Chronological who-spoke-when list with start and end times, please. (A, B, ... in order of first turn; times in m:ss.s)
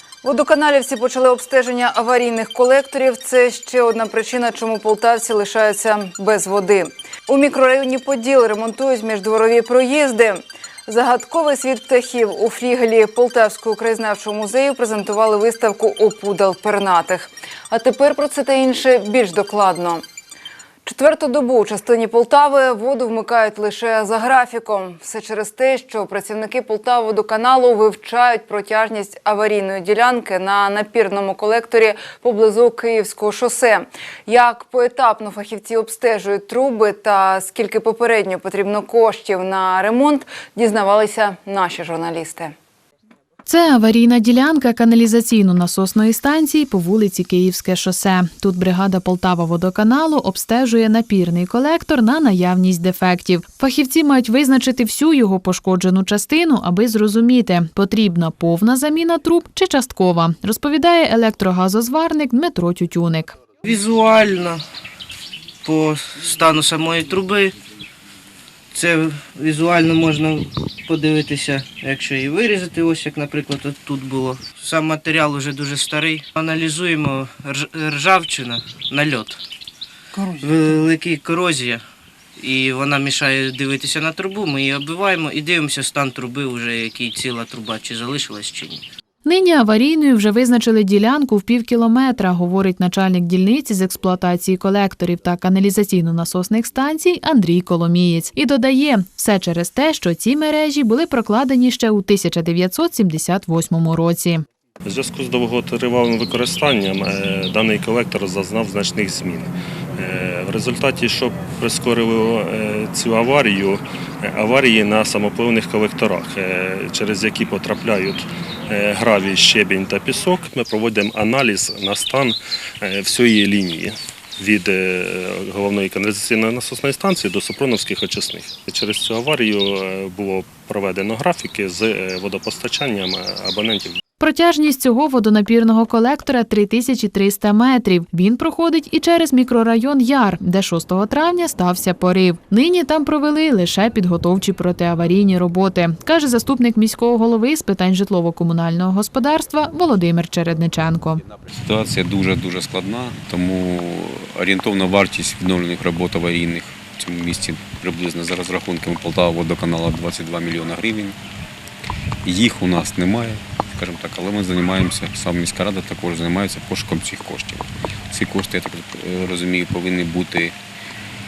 0:00.2-0:20.0 A
0:20.8-0:42.5 A
0:43.4-1:03.4 B
1:03.6-1:04.6 C
1:05.6-1:07.5 C
1:08.7-1:19.4 C
1:20.4-1:21.8 C
1:22.4-1:28.8 C
1:29.2-1:44.4 B
1:44.8-2:14.0 D
2:14.2-2:31.2 B
2:31.3-2:41.2 E
2:42.2-2:50.5 E